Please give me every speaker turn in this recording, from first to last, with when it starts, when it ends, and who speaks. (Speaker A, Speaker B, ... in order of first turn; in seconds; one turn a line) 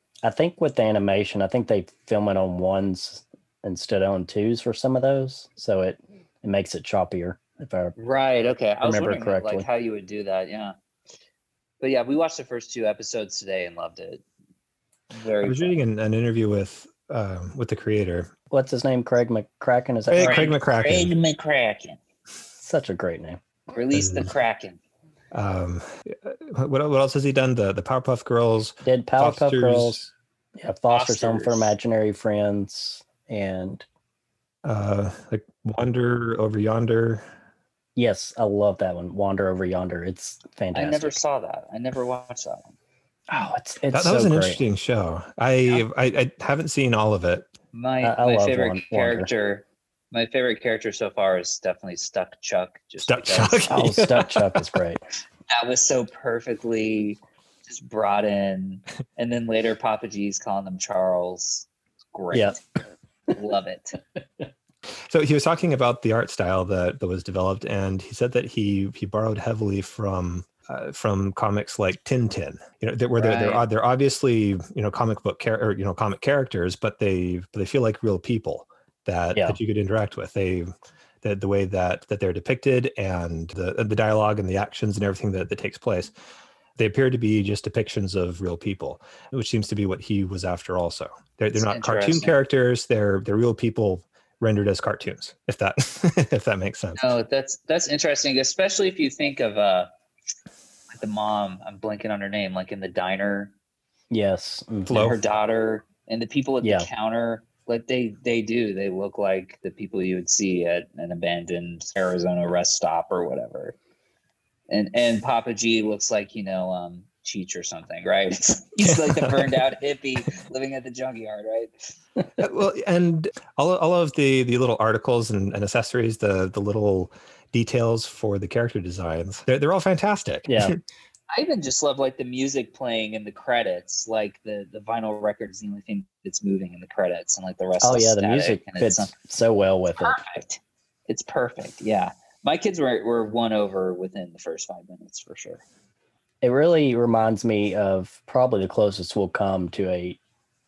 Speaker A: 0.2-8.0
Speaker B: 8.0-10.8
Speaker A: 8.8-9.7
Speaker B: 11.8-14.2
Speaker B: 15.1-15.8
Speaker C: 15.4-18.3
Speaker A: 18.5-20.5
Speaker C: 20.1-21.1
Speaker B: 20.2-22.0
Speaker A: 22.6-23.4
Speaker B: 23.7-24.8
Speaker C: 23.9-24.3
Speaker C: 25.3-30.1
Speaker A: 28.9-30.0
Speaker A: 30.6-33.9
Speaker B: 30.9-31.7
Speaker C: 34.6-37.3
Speaker A: 38.0-41.2
Speaker B: 40.7-42.7
Speaker A: 43.3-44.6
Speaker C: 43.9-47.5
Speaker B: 47.7-53.9
Speaker A: 48.0-49.3
Speaker C: 53.0-54.6
Speaker A: 53.7-55.0
Speaker B: 55.5-62.6
Speaker A: 62.3-62.6
Speaker B: 63.3-64.0
Speaker C: 65.1-80.7
Speaker B: 73.2-73.6
Speaker C: 81.2-86.1
Speaker C: 86.8-97.1
Speaker B: 91.5-92.4
Speaker B: 97.0-99.9
Speaker B: 100.9-103.5
Speaker A: 104.1-105.1
Speaker C: 104.9-105.2
Speaker B: 104.9-113.8
Speaker A: 106.6-106.9
Speaker B: 114.7-121.9
Speaker C: 118.8-119.6
Speaker C: 122.4-130.8
Speaker A: 130.5-130.8
Speaker B: 131.3-139.1
Speaker A: 137.8-140.2
Speaker B: 140.0-145.6
Speaker A: 146.4-150.2